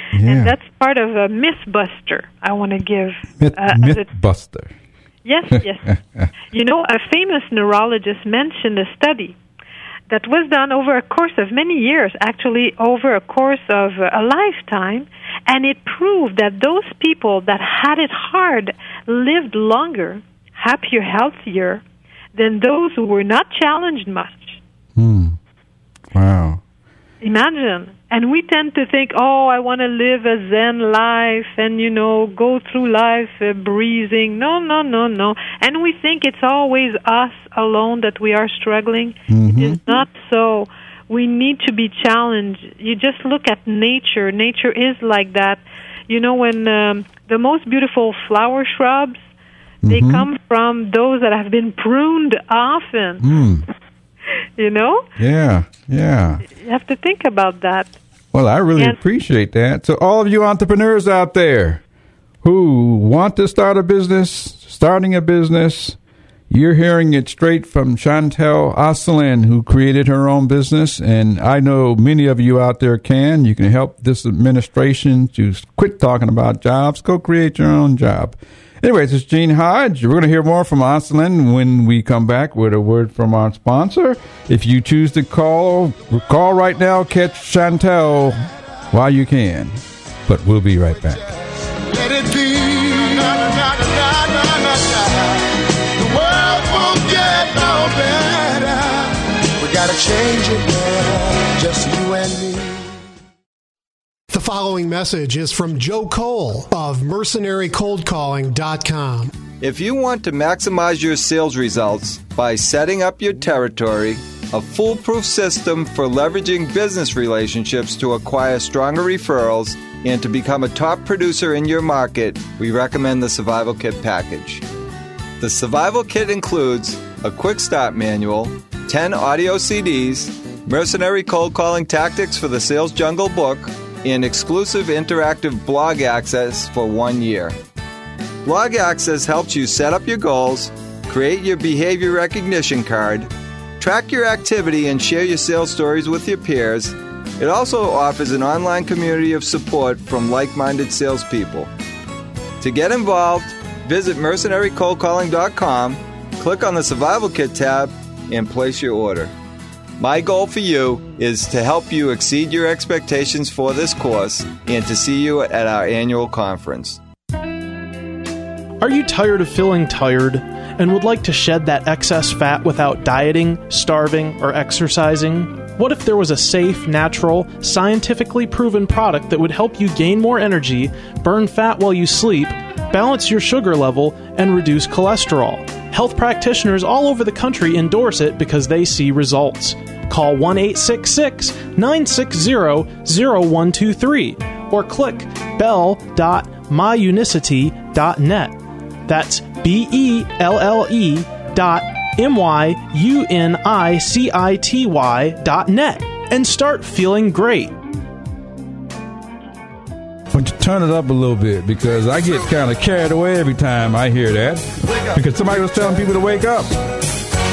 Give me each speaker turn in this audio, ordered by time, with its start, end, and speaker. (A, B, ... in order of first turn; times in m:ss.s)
0:00.1-0:00.5 A
0:00.2-0:04.1 B
0:03.4-0:04.7 A
0:05.2-0:06.0 B
0:05.9-0:06.3 A
0:06.5-0:09.4 B
0:10.1-0:21.8 B
0:22.3-0:24.6 B
0:25.0-0:25.4 A
0:26.1-0:26.6 A
0:27.2-0:49.2 B
0:39.3-0:39.8 A
0:49.8-0:50.3 A
0:49.9-0:53.3 B
0:53.2-0:53.6 A
0:54.6-0:55.0 B
0:55.2-0:56.4 A
0:56.5-0:58.0 B
0:58.3-1:01.8 A
1:02.4-1:06.0 A
1:06.5-1:28.4 A
1:28.9-1:31.2 A
1:31.1-1:42.9 C
1:44.3-1:49.3 D
1:49.6-2:04.6 E
2:05.4-2:17.6 E
2:18.4-2:31.7 E
2:32.6-2:39.3 E
2:40.0-2:47.0 E
2:48.8-3:27.7 F
3:30.3-3:36.7 A